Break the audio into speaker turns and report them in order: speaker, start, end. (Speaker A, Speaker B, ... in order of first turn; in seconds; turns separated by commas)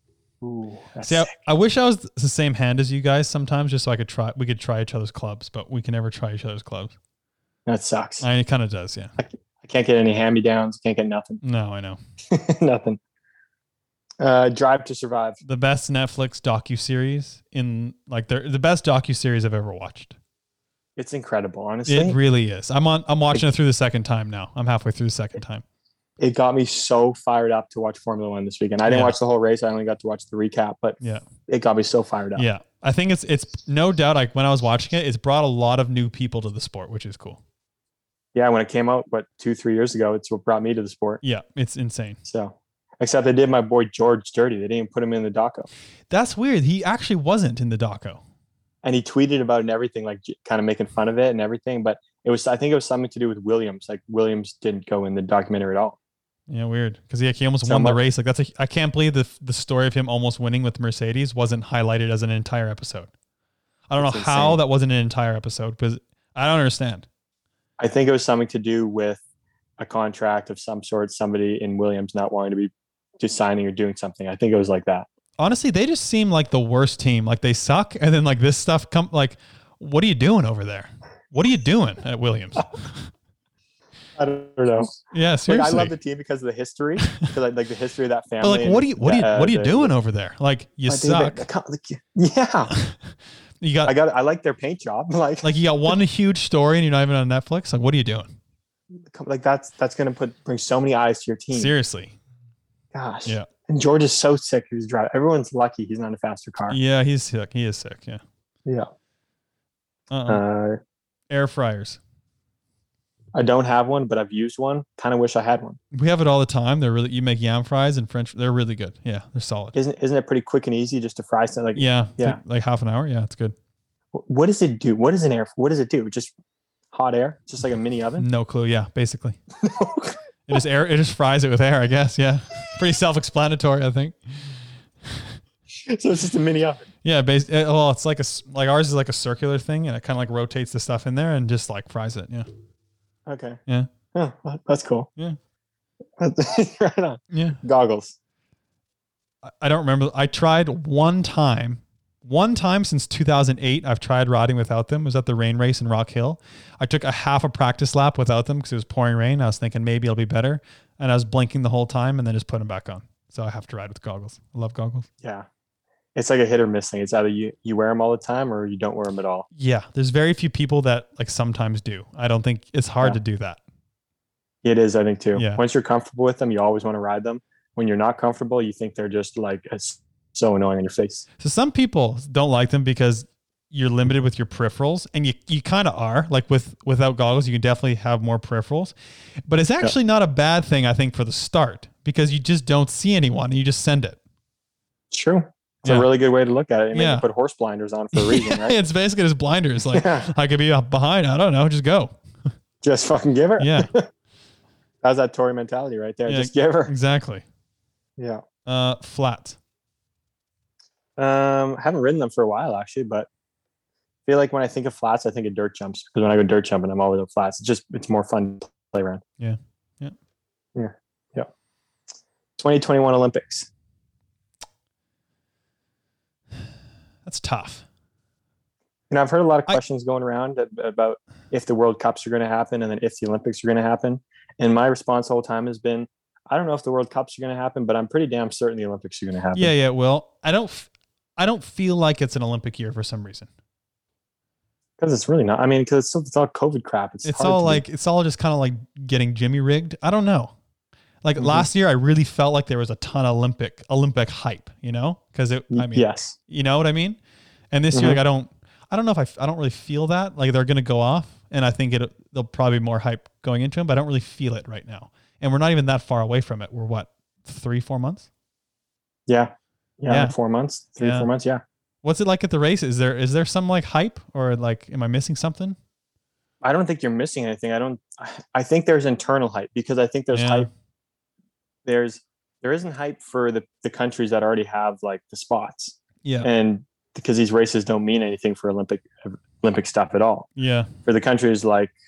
Speaker A: 0.4-1.3, Speaker B: 1.0-6.9, Speaker A: 7.7-8.2, Speaker B: 8.2-9.1, Speaker A: 9.2-11.4, Speaker B: 11.4-12.0, Speaker A: 12.3-13.0, Speaker A: 14.2-15.4, Speaker B: 15.4-20.2, Speaker A: 21.0-22.2, Speaker B: 21.9-25.6, Speaker A: 26.2-32.5, Speaker B: 28.8-29.1, Speaker B: 31.0-31.2, Speaker B: 32.3-37.4, Speaker A: 38.3-41.2, Speaker B: 41.2-42.2, Speaker A: 42.2-45.7, Speaker B: 46.1-48.2, Speaker A: 48.8-56.0, Speaker B: 56.5-63.1, Speaker A: 57.6-58.0, Speaker B: 63.9-67.0, Speaker A: 64.0-64.6, Speaker A: 67.8-69.2, Speaker A: 69.8-75.1, Speaker B: 75.4-83.1, Speaker A: 84.2-84.9, Speaker B: 85.1-86.0, Speaker A: 85.5-89.9, Speaker B: 88.4-91.5, Speaker A: 90.9-92.7, Speaker B: 93.6-93.9, Speaker A: 93.8-95.5, Speaker B: 95.4-98.3, Speaker A: 99.0-101.7, Speaker B: 101.5-102.1, Speaker A: 102.9-106.8, Speaker B: 106.7-108.2, Speaker B: 110.1-110.4, Speaker A: 110.3-110.8, Speaker B: 111.3-112.0, Speaker A: 113.3-115.8, Speaker B: 115.9-119.7, Speaker A: 119.7-122.4, Speaker B: 121.7-123.5, Speaker A: 124.1-126.3, Speaker A: 126.9-128.2, Speaker B: 128.2-129.4, Speaker A: 129.6-130.2, Speaker B: 130.5-135.4, Speaker A: 135.7-136.8, Speaker B: 137.0-142.5, Speaker A: 143.3-143.6, Speaker A: 144.1-145.1, Speaker A: 146.2-148.2, Speaker B: 147.3-147.6, Speaker B: 149.4-165.1, Speaker A: 166.1-169.5, Speaker B: 169.5-173.6, Speaker A: 174.6-181.2, Speaker B: 175.3-175.6, Speaker B: 181.4-188.9, Speaker B: 189.5-194.2, Speaker A: 195.1-198.8, Speaker B: 195.8-196.1, Speaker B: 196.9-197.2, Speaker B: 198.1-202.1, Speaker A: 199.9-200.3, Speaker A: 202.8-204.0, Speaker B: 203.6-203.9, Speaker A: 205.0-206.9, Speaker B: 206.2-207.4, Speaker A: 208.2-208.4, Speaker B: 208.7-209.6, Speaker A: 211.2-213.3, Speaker A: 214.3-219.2, Speaker B: 219.4-220.1, Speaker A: 220.7-221.5, Speaker A: 222.6-223.7, Speaker B: 227.2-227.8, Speaker A: 229.1-239.7, Speaker B: 239.5-243.5, Speaker A: 245.0-247.8, Speaker B: 247.2-250.5, Speaker B: 251.2-257.2, Speaker A: 251.4-251.7, Speaker A: 255.7-256.4, Speaker B: 257.7-268.3, Speaker A: 257.9-258.2, Speaker A: 269.3-271.6, Speaker B: 270.1-270.4, Speaker B: 271.0-271.3, Speaker B: 272.0-275.8, Speaker A: 276.6-280.7, Speaker B: 280.3-280.7, Speaker A: 281.9-290.5, Speaker B: 290.6-290.9, Speaker A: 291.0-291.9